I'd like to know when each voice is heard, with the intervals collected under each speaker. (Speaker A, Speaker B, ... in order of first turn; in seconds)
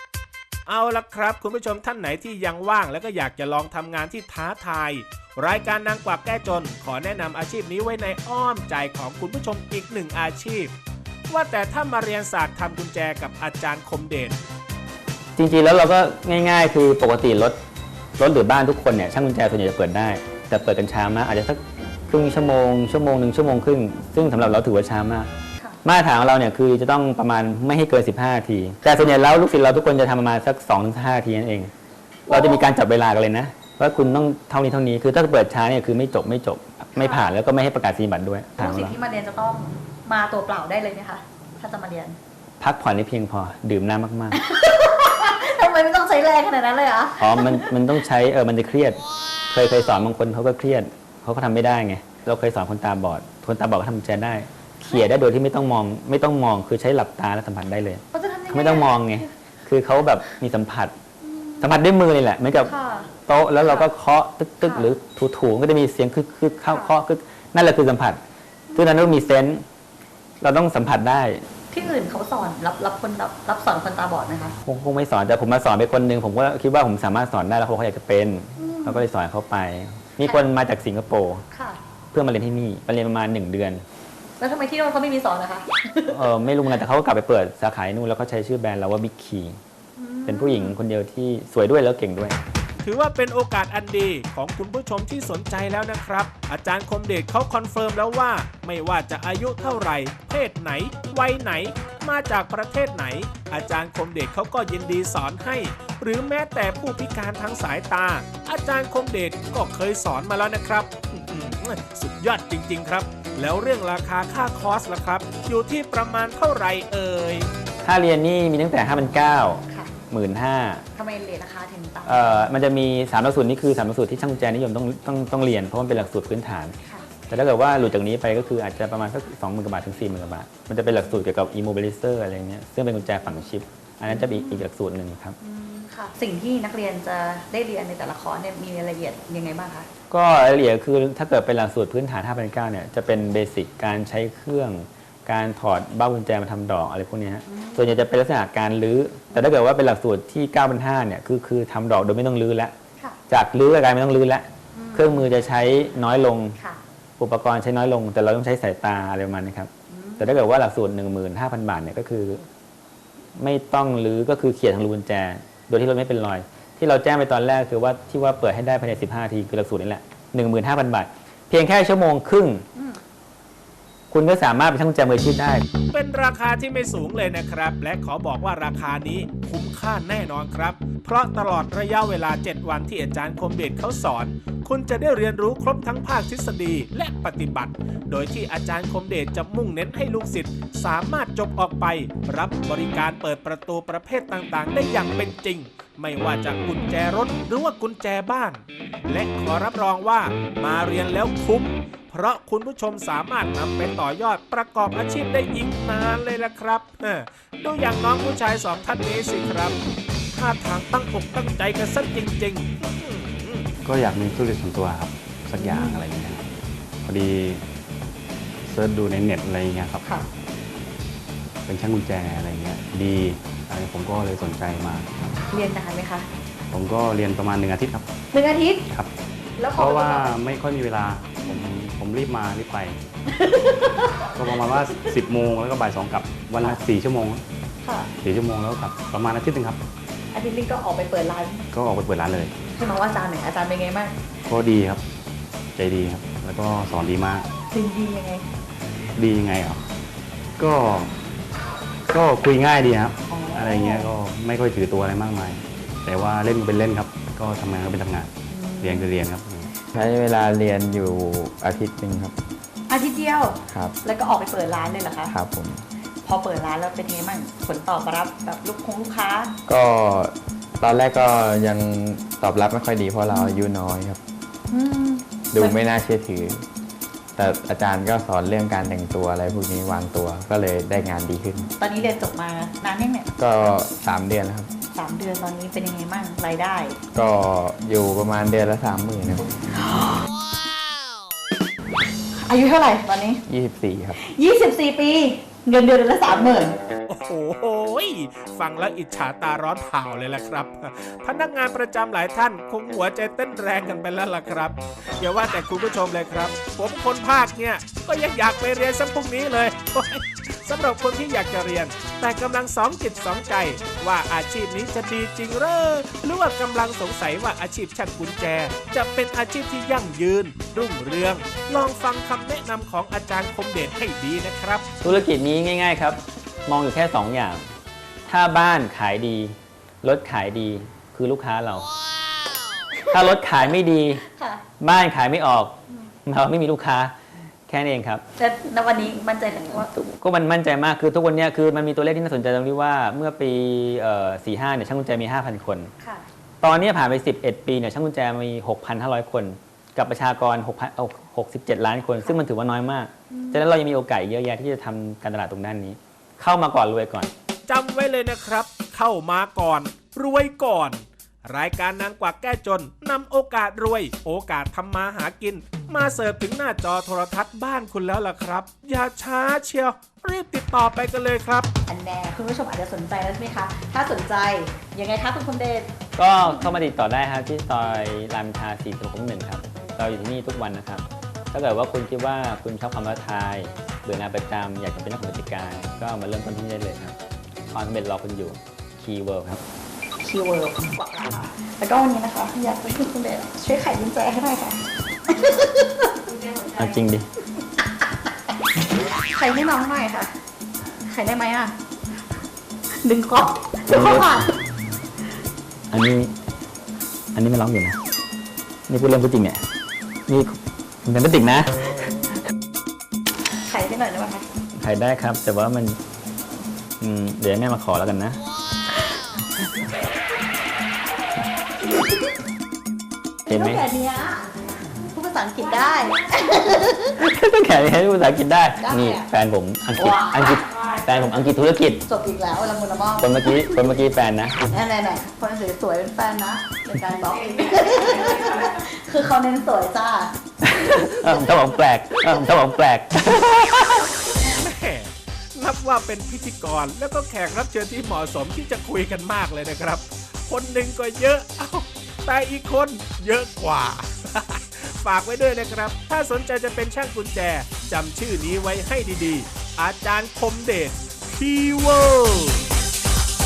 Speaker A: 0.7-10.7, 11.3-14.4, 92.8-117.5, 175.9-209.8, 210.3-213.7, 297.1-324.9, 357.7-371.7, 444.5-462.6
Speaker B: 15.4-17.6, 18.2-25.3, 25.8-31.7, 32.3-39.0, 42.6-44.4, 47.2-49.0, 49.5-60.9, 61.6-62.7, 63.3-68.2, 68.8-69.7, 70.4-71.5, 74.6-81.4, 82.1-83.8, 86.1-89.6, 90.3-92.4, 117.8-120.8, 122.0-126.8, 127.3-135.3, 140.1-152.7, 153.3-156.6, 157.2-162.4, 163.4-172.7, 174.1-175.7, 325.0-327.7, 328.3-331.9, 333.1-334.2, 334.8-337.1, 337.7-338.2, 339.8-345.9, 346.6-357.3, 376.2-387.2, 387.7-389.6, 396.8-397.3, 403.9-404.4, 405.9-406.3, 407.3-408.0, 408.9-409.6, 410.3-411.9, 414.7-416.0, 417.0-418.4, 423.5-423.9, 427.2-432.0, 433.2-434.6, 440.6-444.1
Speaker C: 32.3-32.8, 37.0-37.3, 38.6-42.2, 44.3-47.7, 58.1-59.3, 61.2-61.7, 62.5-63.1, 63.6-63.9, 64.6-65.0, 66.7-67.0, 68.7-69.1, 71.7-74.5, 78.6-79.0, 80.2-80.5, 81.5-81.8, 84.4-86.2, 90.0-90.8, 120.9-122.4, 134.1-134.7, 135.4-139.9, 147.5-148.0, 154.8-155.3, 159.9-160.4, 172.8-173.0, 215.6-216.0, 225.5-226.3, 228.3-228.8, 229.6-230.4, 233.3-234.2, 237.8-238.1, 240.3-241.7, 242.7-244.2, 247.7-248.5, 253.3-254.1, 258.5-259.1, 262.9-265.3, 266.2-269.5, 273.3-273.7, 274.7-275.8, 281.8-283.3, 284.9-287.0, 289.7-290.3, 292.3-293.4, 294.2-296.8, 333.0-333.6, 334.3-334.6, 338.4-339.9, 346.0-346.3, 353.3-353.6, 371.9-375.9, 390.2-396.9, 399.3-400.3, 401.0-401.8, 402.9-404.5, 413.6-414.5, 423.5-424.5, 425.0-427.1, 428.8-429.3, 430.0-430.7, 432.1-433.8, 434.7-440.3
Speaker D: 213.8-216.4, 217.0-217.6, 218.7-220.0, 221.7-225.3, 226.7-228.1, 229.8-233.0, 234.3-237.4, 238.2-239.8, 241.7-242.6, 244.5-245.1, 245.8-247.5, 249.2-249.9, 250.6-251.1, 252.1-259.7
Speaker E: 259.9-262.4, 263.7-264.0, 265.3-265.8, 269.7-274.2, 275.5-276.6, 277.4-281.7, 283.4-284.7, 287.1-289.5, 293.5-294.2